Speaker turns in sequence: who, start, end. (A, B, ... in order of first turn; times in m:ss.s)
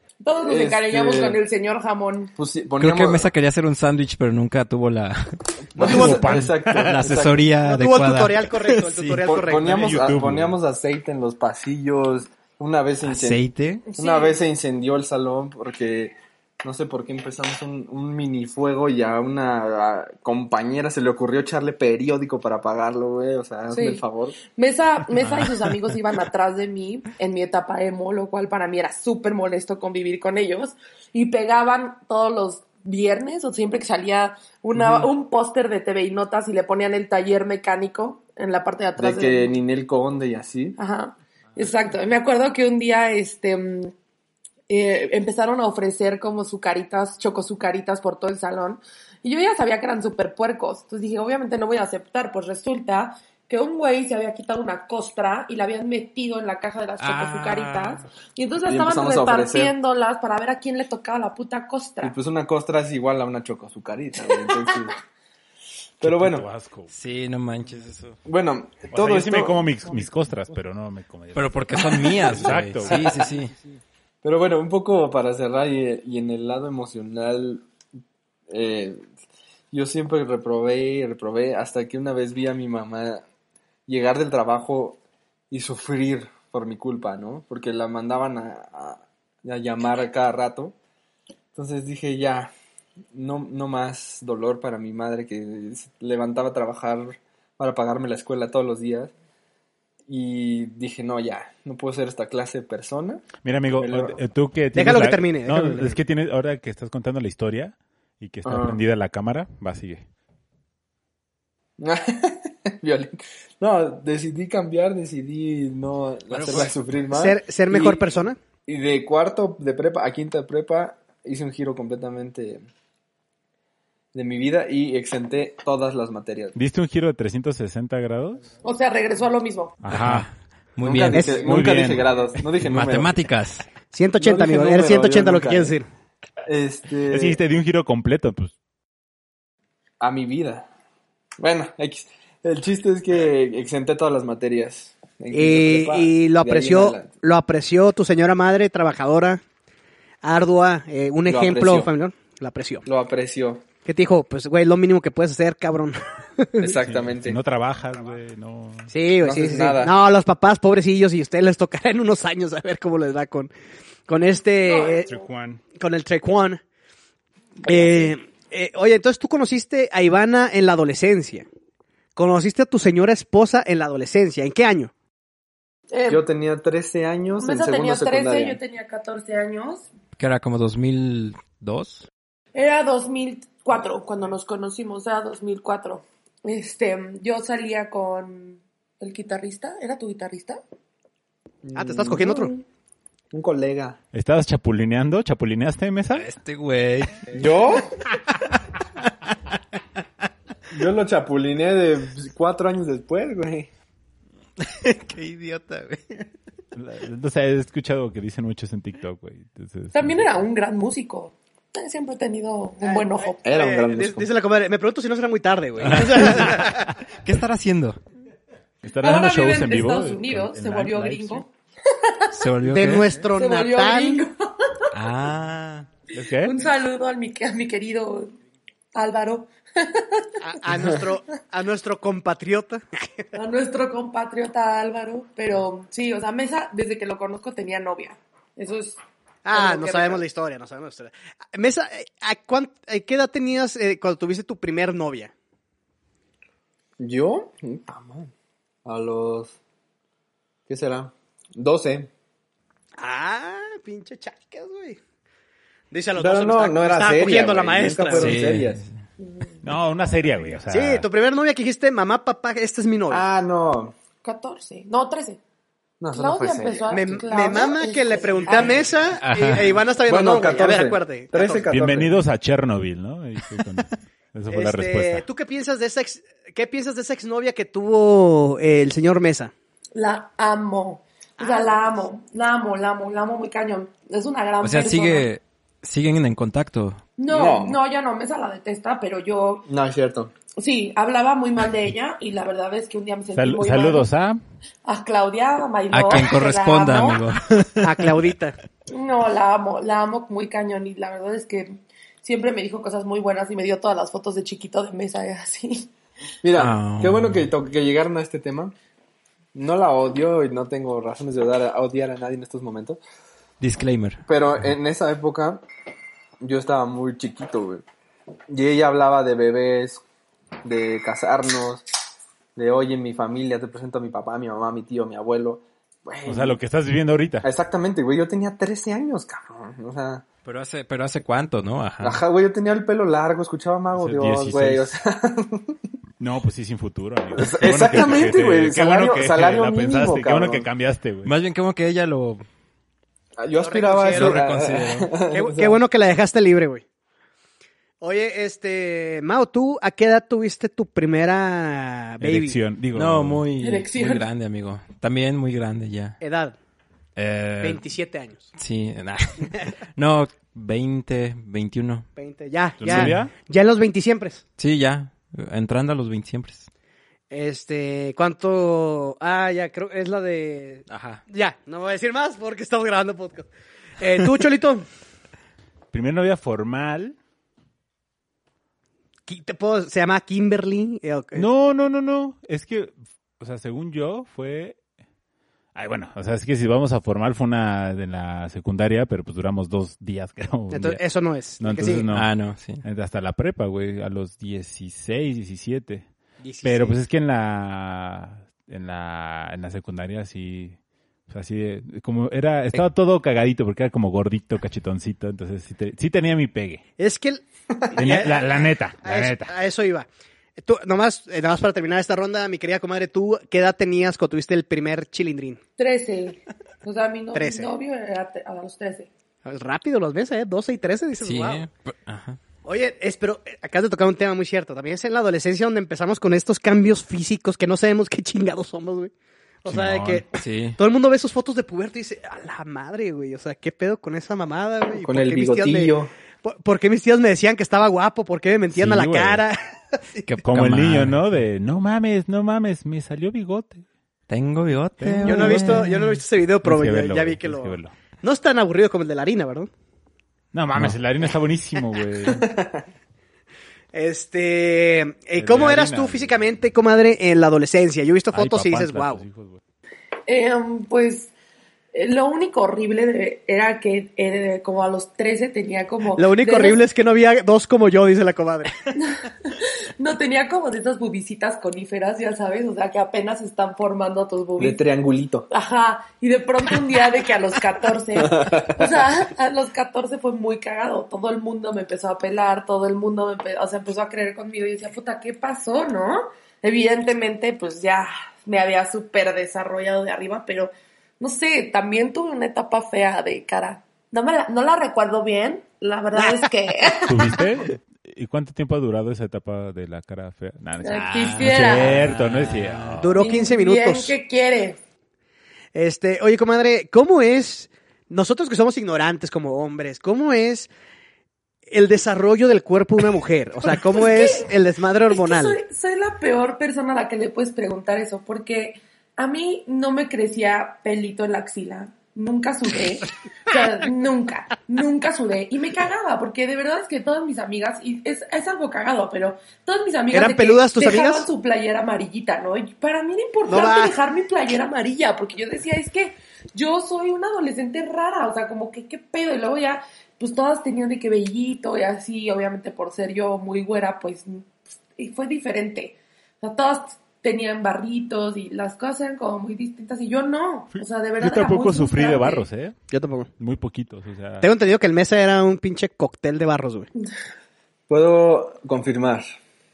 0:00.2-0:02.3 A
0:00.4-0:01.4 B
0:02.4-0:03.3 B
0:02.8-0:06.2 C
0:05.8-0:07.5 B
0:05.8-0:07.0 D
0:05.9-0:06.2 E
0:06.7-0:09.2 C
0:07.7-0:09.9 E
0:09.2-0:13.4 B
0:09.6-0:10.6 D
0:13.0-0:13.8 C
0:13.9-0:14.4 A
0:14.0-0:24.4 B
0:23.7-0:24.0 A
0:24.5-0:39.5 A
0:25.2-0:25.7 C
0:39.0-0:40.8 B
0:40.8-0:43.9 A
0:44.7-1:02.2 A
0:57.0-0:58.1 C
0:58.6-0:59.7 B
1:02.0-1:05.0 B
1:06.0-1:06.5 B
1:06.0-1:06.9 D
1:06.9-1:08.2 C
1:08.3-1:09.7 B
1:08.9-1:13.2 D
1:11.3-1:13.5 C
1:14.2-1:17.6 B
1:18.5-1:19.0 B
1:19.7-1:23.2 B
1:23.9-1:25.0 B
1:25.5-1:30.8 B
1:31.5-1:32.5 B
1:33.1-1:39.1 B
1:40.1-1:44.2 B
1:43.4-1:50.0 D
1:44.7-1:46.0 E
1:48.4-1:48.8 B
1:51.8-1:58.1 B
1:56.3-1:56.8 C
1:57.1-1:58.4 E
1:58.7-2:02.6 B
2:04.1-2:06.6 B
2:06.6-2:08.5 D
2:08.6-2:09.8 A
2:09.8-2:10.3 D
2:09.9-2:11.3 C
2:10.8-2:13.2 B
2:11.1-2:11.4 E
2:11.3-2:12.1 D
2:12.6-2:13.7 C
2:13.9-2:15.9 E
2:14.2-2:15.8 B
2:16.5-2:17.4 B
2:17.1-2:18.5 D
2:20.0-2:20.7 B
2:21.4-2:27.1 B
2:25.3-2:29.4 E
2:30.2-2:32.8 E
2:31.3-2:31.9 B
2:32.8-2:33.6 B
2:33.8-2:36.8 E
2:36.6-2:37.4 B
2:36.8-2:38.9 D
2:38.9-2:43.5 E
2:39.2-2:39.9 B
2:44.1-2:45.1 E
2:44.6-2:45.2 A
2:45.1-2:45.6 D
2:45.7-2:46.6 E
2:47.6-2:51.5 E
2:52.2-2:54.9 E
2:55.9-2:56.2 A
2:56.1-2:58.6 B
2:57.4-2:59.9 A
3:00.2-3:02.1 C
3:02.6-3:10.6 A
3:11.6-3:12.6 B
3:11.8-3:12.6 E
3:13.3-3:14.0 B
3:14.1-3:16.3 D
3:16.1-3:17.5 C
3:17.3-3:18.0 B
3:20.7-3:23.7 B
3:24.6-3:26.3 C
3:26.8-3:30.3 D
3:29.9-3:33.5 A
3:32.8-3:36.9 E
3:33.4-3:34.3 B
3:35.8-3:38.0 C
3:38.8-3:41.5 D
3:39.0-3:42.4 A
3:42.3-3:43.1 C
3:42.6-3:44.3 E
3:43.3-3:44.8 A
3:44.9-3:45.9 C
3:46.2-3:46.5 D
3:46.2-3:48.4 A
3:48.9-3:50.4 A
3:50.4-3:53.3 E
3:53.3-3:59.0 A
3:59.4-4:05.3 E
3:59.5-4:00.2 A
4:07.0-4:08.3 B
4:08.8-4:09.6 B
4:10.7-4:12.1 B
4:13.0-4:15.0 E
4:15.9-4:18.4 E
4:16.2-4:18.8 B
4:18.1-4:18.9 C
4:19.2-4:19.5 A
4:19.6-4:21.1 D
4:20.7-4:23.2 E
4:23.1-4:24.0 B
4:24.2-4:25.4 A
4:26.0-4:27.0 B
4:26.1-4:28.8 A
4:26.9-4:31.6 E
4:29.2-4:29.7 C
4:30.1-4:32.2 B
4:31.7-4:35.2 D
4:34.5-4:39.5 E
4:40.0-4:45.3 A
4:41.4-4:42.0 E
4:44.6-4:47.0 C
4:47.2-4:49.7 A
4:47.3-4:47.8 B
4:49.7-4:50.3 B
4:50.6-4:54.1 A
4:53.3-4:54.4 D
4:54.8-4:57.2 A
4:55.9-4:58.1 C
4:57.8-4:58.6 E
4:58.9-5:05.9 A
5:06.4-5:08.8 B
5:06.6-5:07.5 C
5:09.5-5:13.0 B
5:13.6-5:14.2 C
5:14.3-5:15.6 B
5:16.4-5:17.8 B
5:18.5-5:20.0 B
5:20.6-5:21.8 B
5:22.6-5:26.6 B
5:26.3-5:27.5 D
5:27.4-5:30.2 B
5:30.4-5:32.2 C
5:32.0-5:35.8 B
5:34.0-5:34.9 D
5:36.2-5:41.3 D
5:37.4-5:40.7 B
5:41.2-5:42.4 C
5:43.4-5:45.8 B
5:43.6-5:44.4 E
5:44.1-5:45.1 C
5:45.3-5:46.8 E
5:48.0-5:52.6 E
5:52.2-5:53.5 D
5:52.9-5:56.2 C
5:53.6-5:54.3 A
5:56.2-5:56.6 E
5:57.2-5:57.7 C
5:57.6-5:58.5 E
5:58.6-6:02.1 C
6:02.2-6:04.4 E
6:02.8-6:03.3 D
6:02.9-6:03.2 C
6:04.6-6:06.7 C
6:07.3-6:14.9 E
6:10.9-6:11.2 C
6:15.9-6:17.2 D
6:19.3-6:21.5 E
6:21.4-6:24.8 D
6:25.8-6:31.0 D
6:30.7-6:32.1 E
6:31.6-6:36.1 D
6:32.1-6:32.8 C
6:36.4-6:37.0 E
6:36.6-6:40.8 D
6:41.3-6:46.8 D
6:47.0-6:55.6 E
6:48.0-6:49.5 D
6:55.8-6:59.1 A
6:57.3-6:57.7 E
6:59.4-7:01.7 E
7:01.2-7:02.4 C
7:02.6-7:09.1 E
7:09.6-7:10.3 E
7:09.7-7:10.3 D
7:10.3-7:10.8 C
7:10.8-7:20.3 E
7:15.0-7:16.1 B
7:18.7-7:19.4 D
7:20.2-7:21.2 C
7:20.4-7:23.8 D
7:24.3-7:26.2 C
7:25.0-7:26.0 D
7:25.2-7:29.7 E
7:26.6-7:27.9 D
7:30.5-7:32.5 D
7:32.2-7:32.8 B
7:33.9-7:39.2 E
7:35.4-7:36.5 D
7:38.3-7:39.6 D
7:40.3-7:41.3 A
7:41.9-7:46.8 A
7:46.2-7:48.7 E
7:48.9-7:54.8 A
7:54.6-7:55.5 B
7:55.5-8:17.4 A
7:58.2-7:58.9 B
8:17.0-8:23.2 D
8:20.8-8:22.0 A
8:21.0-8:23.0 C
8:23.0-8:24.2 E
8:23.2-8:24.8 A
8:25.7-8:30.7 E
8:31.7-8:35.6 E
8:33.8-8:34.5 A
8:35.1-9:12.5 A
8:50.1-8:51.3 E
8:53.5-8:54.0 E
9:11.2-9:12.8 D
9:12.9-9:13.3 E
9:13.4-9:14.5 D
9:14.4-9:16.9 E
9:17.9-9:19.3 B